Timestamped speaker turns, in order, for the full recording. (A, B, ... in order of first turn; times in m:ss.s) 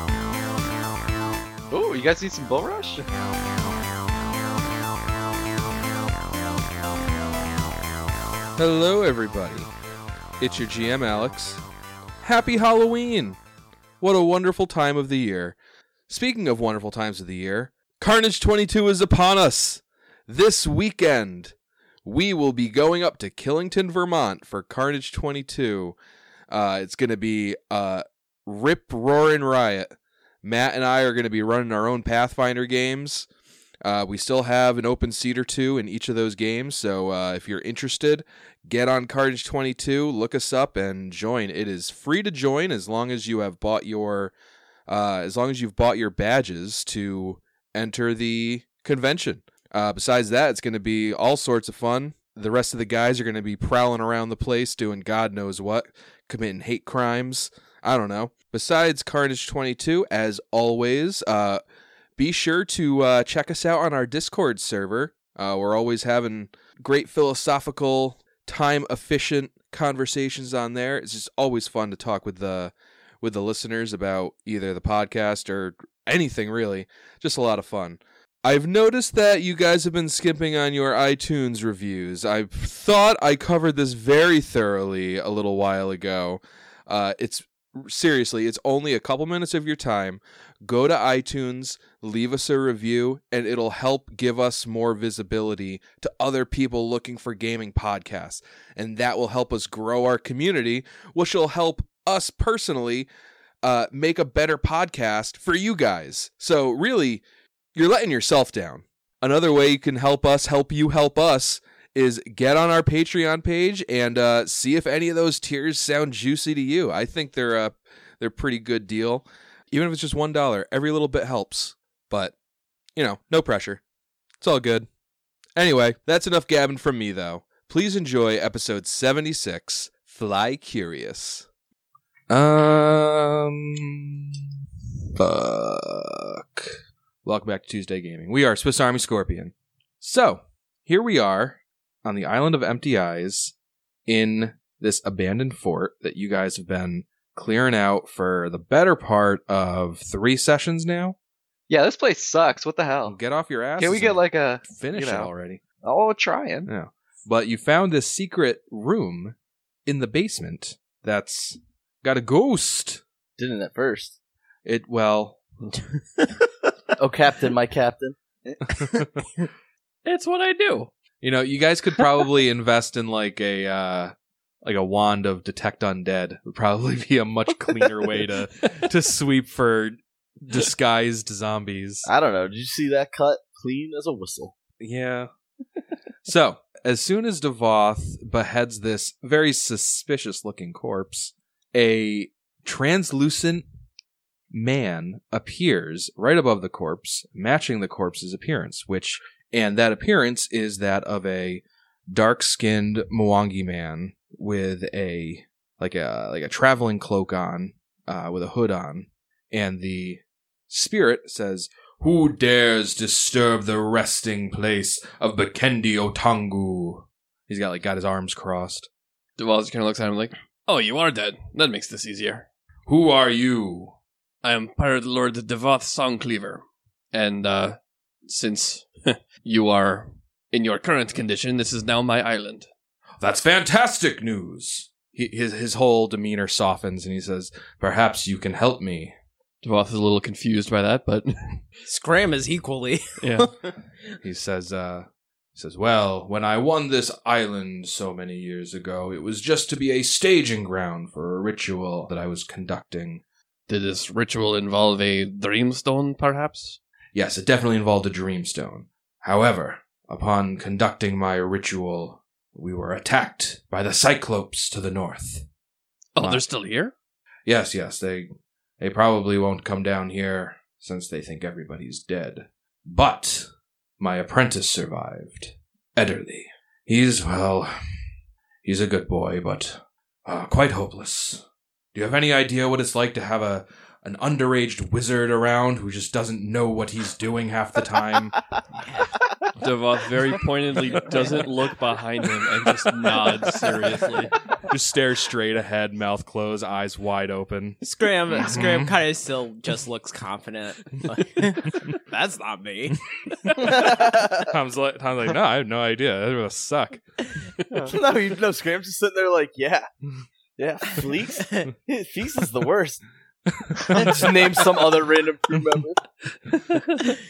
0:01.7-0:03.0 A
0:08.6-0:09.7 B
0:10.4-0:11.6 B
0:12.2-0:13.4 B
0:14.0-0:15.6 B
0:16.1-0:26.0 B
0:26.5-0:29.9 B
0:30.4-0:33.3 B
0:33.8-0:44.3 B
0:44.9-1:01.6 B
1:02.2-1:43.1 B
1:43.6-1:47.2 B
1:47.8-2:02.4 B
2:03.0-2:03.8 B
2:04.4-2:04.9 B
2:05.6-2:11.5 B
2:12.3-2:14.4 B
2:15.2-2:23.5 B
2:24.1-2:31.2 B
2:31.7-2:33.2 A
2:33.1-2:35.6 B
2:33.8-2:35.3 A
2:35.8-2:36.7 A
2:36.7-2:43.0 B
2:43.4-2:44.2 C
2:44.6-2:45.4 B
2:45.7-2:46.5 D
2:47.0-2:48.2 C
2:48.7-2:49.2 B
2:50.0-2:50.9 E
2:51.2-3:02.1 B
3:02.0-3:04.5 C
3:04.8-3:05.3 B
3:06.2-3:13.7 B
3:14.5-3:38.9 B
3:39.4-3:42.5 E
3:42.9-3:44.0 B
3:44.4-3:46.6 E
3:47.1-3:52.7 E
3:53.2-3:59.1 B
3:59.6-4:01.6 E
4:01.9-4:03.5 D
4:03.2-4:03.5 E
4:04.2-4:13.2 B
4:13.7-4:16.8 E
4:17.1-4:25.5 B
4:26.2-4:26.9 E
4:27.5-4:33.5 B
4:34.0-4:37.8 B
4:38.6-4:48.4 B
4:49.6-4:54.4 E
4:54.7-4:57.8 B
4:57.8-5:03.7 D
4:58.4-4:59.0 B
5:03.4-5:03.9 B
5:03.5-5:04.5 C
5:04.4-5:07.0 B
5:07.9-5:09.9 C
5:10.6-5:13.0 C
5:11.4-5:11.7 D
5:13.5-5:14.6 B
5:13.8-5:16.0 C